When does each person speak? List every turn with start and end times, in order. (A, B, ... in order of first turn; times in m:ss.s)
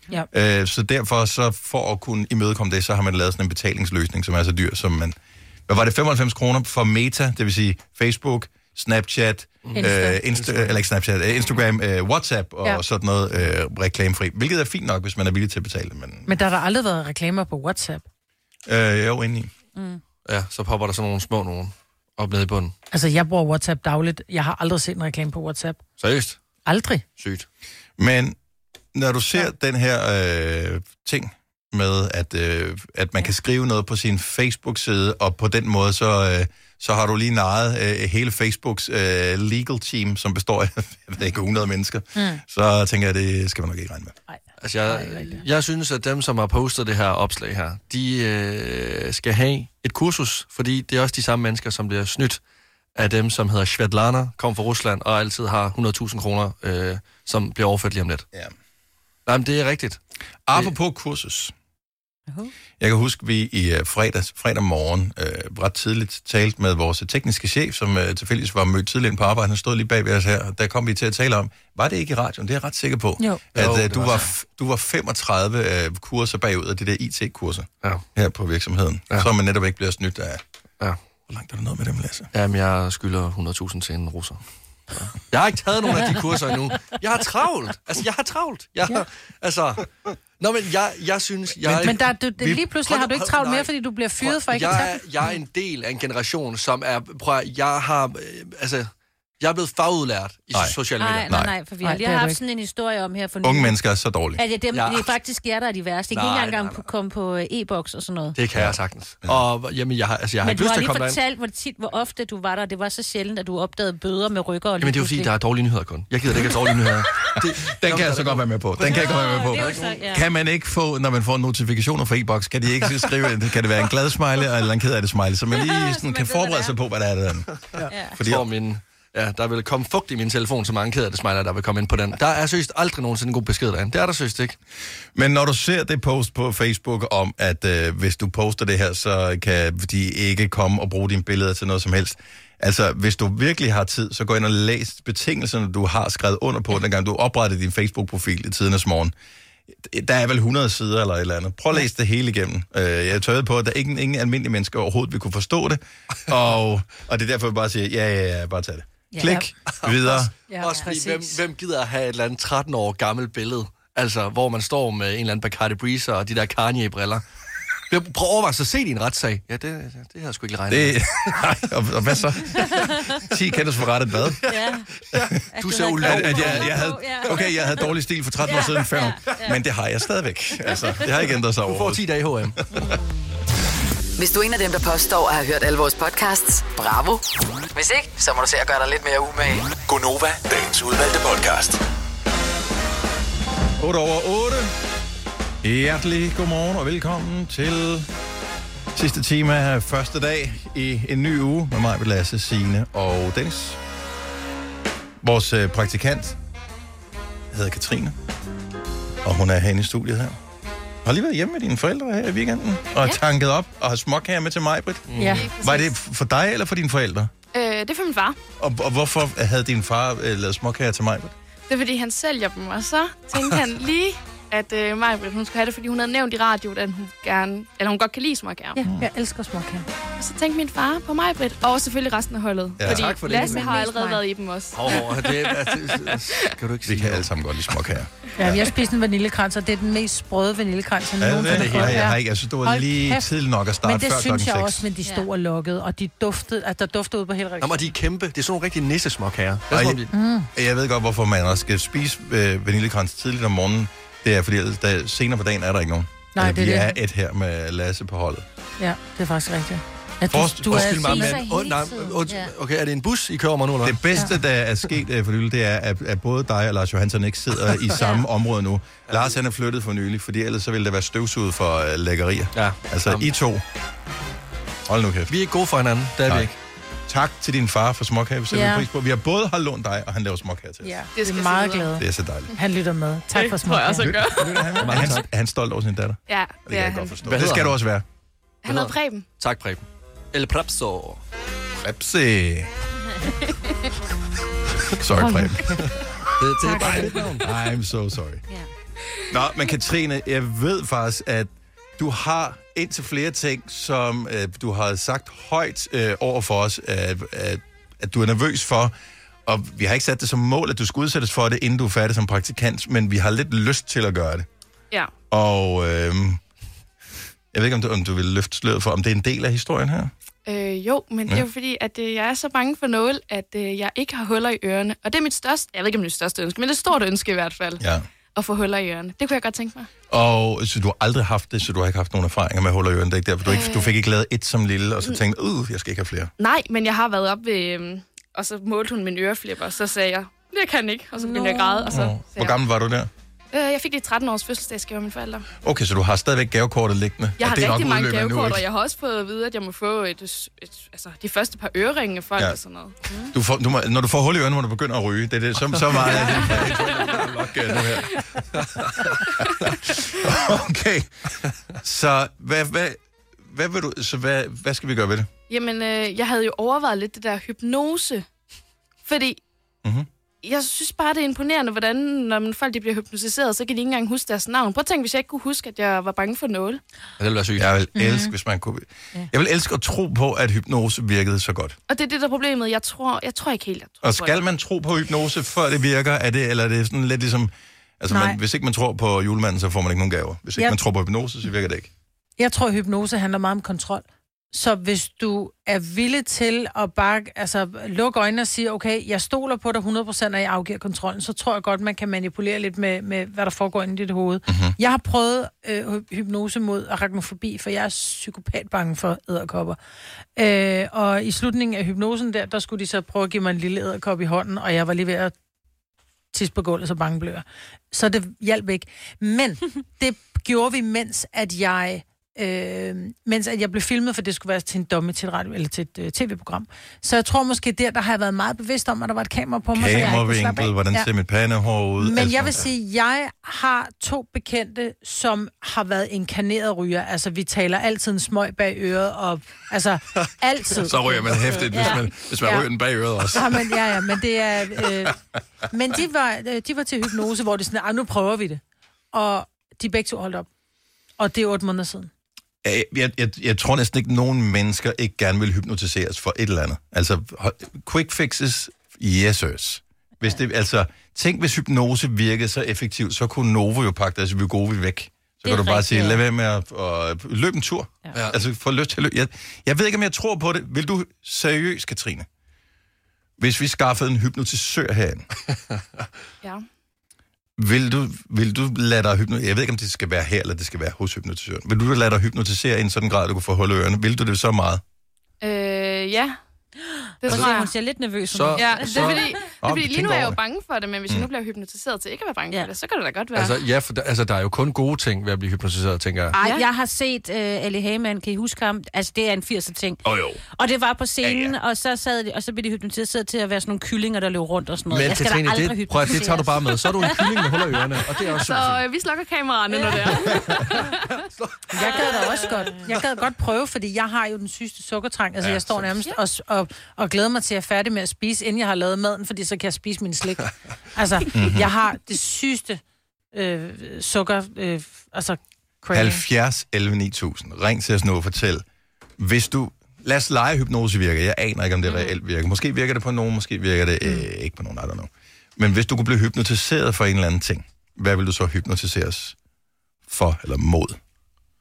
0:00.3-0:05.2 A
0:05.7-0:16.4 A
0:09.6-0:10.8 B
0:09.7-0:10.2 C
0:16.2-0:18.0 C
0:18.6-0:19.5 A
0:20.2-0:22.7 B
0:22.9-0:25.8 C
0:26.0-0:26.4 B
0:26.6-0:27.0 C
0:27.2-0:27.4 B
0:28.0-0:28.4 A
0:28.9-0:44.2 A
0:42.1-0:42.4 C
0:44.3-0:45.4 C
0:44.6-0:52.4 B
0:53.0-0:58.2 B
0:59.2-1:00.0 B
1:00.5-1:01.5 A
1:02.8-1:20.4 A
1:13.5-1:14.3 B
1:21.3-1:22.3 A
1:22.3-1:24.4 B
1:24.9-1:29.9 B
1:30.4-1:41.4 B
1:31.6-1:31.9 A
1:31.8-1:35.0 C
1:41.0-1:43.8 D
1:41.8-1:42.4 C
1:43.4-1:44.4 A
1:44.4-1:48.4 D
1:44.7-1:45.1 B
1:46.1-1:46.8 B
1:48.4-1:51.2 B
1:48.5-1:49.4 A
1:50.4-1:55.3 D
1:54.8-2:00.0 B
1:57.6-2:07.6 A
1:58.8-2:00.2 D
2:05.5-2:06.7 D
2:07.7-2:14.6 B
2:07.9-2:08.2 D
2:08.1-2:08.5 A
2:15.1-2:29.1 A
2:29.8-2:40.3 A
2:39.1-2:39.5 C
2:39.7-2:47.2 B
2:40.5-2:41.4 C
2:47.9-2:51.4 B
2:50.7-2:54.4 A
2:54.4-2:57.4 B
2:54.5-2:54.9 D
2:55.5-2:57.9 D
2:56.0-3:02.8 A
2:58.4-2:59.6 D
3:00.6-3:01.1 D
3:01.6-3:02.6 B
3:02.8-3:03.0 D
3:04.2-3:09.7 E
3:09.8-3:11.8 F
3:13.8-3:14.7 A
3:15.6-3:18.1 A
3:18.9-3:23.8 A
3:25.2-3:26.4 A
3:27.5-3:28.2 A
3:29.2-3:30.4 A
3:31.0-3:37.3 A
3:35.1-3:35.5 B
3:35.2-3:35.5 C
3:35.3-3:35.9 G
3:37.5-3:38.4 G
3:38.6-3:41.3 A
3:41.7-3:48.8 G
3:48.8-3:49.8 C
3:48.8-3:49.1 A
3:50.2-3:56.5 G
3:52.8-3:53.2 A
3:52.8-3:53.8 B
3:53.4-3:54.1 C
3:54.7-3:57.3 B
3:56.8-3:58.7 A
3:58.4-4:03.3 C
4:01.2-4:04.9 A
4:01.4-4:02.1 B
4:03.8-4:07.9 C
4:07.6-4:10.1 B
4:09.7-4:10.0 A
4:10.1-4:10.5 C
4:10.5-4:18.4 A
4:16.3-4:17.0 C
4:18.8-4:21.4 C
4:20.3-4:20.9 A
4:20.7-4:24.2 B
4:20.7-4:22.5 D
4:23.8-4:33.6 A
4:28.0-4:28.2 D
4:32.5-4:33.3 B
4:34.8-4:35.3 A
4:35.3-4:36.6 B
4:37.1-4:41.0 A
4:38.5-4:38.9 C
4:40.8-4:44.2 C
4:41.1-4:41.9 G
4:42.0-4:42.5 A
4:43.3-4:44.9 G
4:44.0-4:48.0 A
4:44.8-4:45.2 B
4:46.3-4:47.2 G
4:47.2-4:47.8 B
4:48.6-4:49.2 G
4:48.6-4:51.2 B
4:51.8-4:52.7 A
4:54.9-4:55.8 A
4:55.2-4:55.7 C
4:55.8-4:57.4 B
4:56.6-4:57.2 C
4:56.8-4:58.4 A
4:59.3-5:08.9 A
5:09.4-5:14.4 A
5:15.3-5:16.4 A
5:17.5-5:20.1 A
5:20.4-5:27.8 G
5:27.8-5:28.1 A
5:28.3-5:29.9 G
5:30.1-5:36.3 A
5:33.4-5:34.0 G
5:36.4-5:42.6 G
5:41.2-5:41.9 D
5:41.9-5:43.1 A
5:43.5-5:45.4 G
5:45.6-5:48.6 A
5:47.4-5:53.0 G
5:53.3-5:58.2 A
5:55.7-5:59.4 B
5:59.4-6:01.2 A
6:01.8-6:05.3 A
6:05.5-6:08.3 G
6:09.0-6:09.4 G
6:10.4-6:16.8 G
6:17.2-6:17.7 B
6:17.6-6:21.8 A
6:17.9-6:18.3 C
6:21.9-6:24.4 G
6:24.0-6:31.9 A
6:28.1-6:28.4 C
6:32.4-6:49.8 C
6:44.5-6:44.8 A
6:50.4-6:55.3 C
6:56.3-7:11.1 C
7:09.7-7:12.7 A
7:12.0-7:21.9 C
7:20.8-7:23.8 A
7:21.7-7:22.0 D
7:22.4-7:22.7 C
7:23.3-7:25.2 C
7:24.8-7:25.1 A
7:25.7-7:28.6 C
7:29.1-7:30.5 C
7:31.2-7:32.1 C
7:32.6-7:52.3 A
7:45.4-7:46.2 D
7:53.4-7:55.2 A
7:57.6-8:04.8 A
8:05.4-8:06.4 G
8:07.2-8:07.7 G
8:07.2-8:09.4 D
8:08.3-8:09.2 B
8:08.6-8:13.6 G
8:09.6-8:10.4 A
8:13.3-8:16.4 B
8:16.3-8:20.0 D
8:16.4-8:16.6 G
8:20.0-8:20.4 A
8:20.5-8:27.6 D
8:21.2-8:21.5 A
8:24.9-8:28.8 B
8:28.2-8:30.9 G
8:30.2-8:30.8 B
8:31.4-8:31.6 B
8:31.7-8:40.4 C
8:35.4-8:36.0 B
8:40.9-8:42.8 C
8:41.3-8:41.7 A
8:43.3-8:46.2 C
8:45.9-8:48.6 A
8:49.2-8:59.4 A
9:00.1-9:01.0 A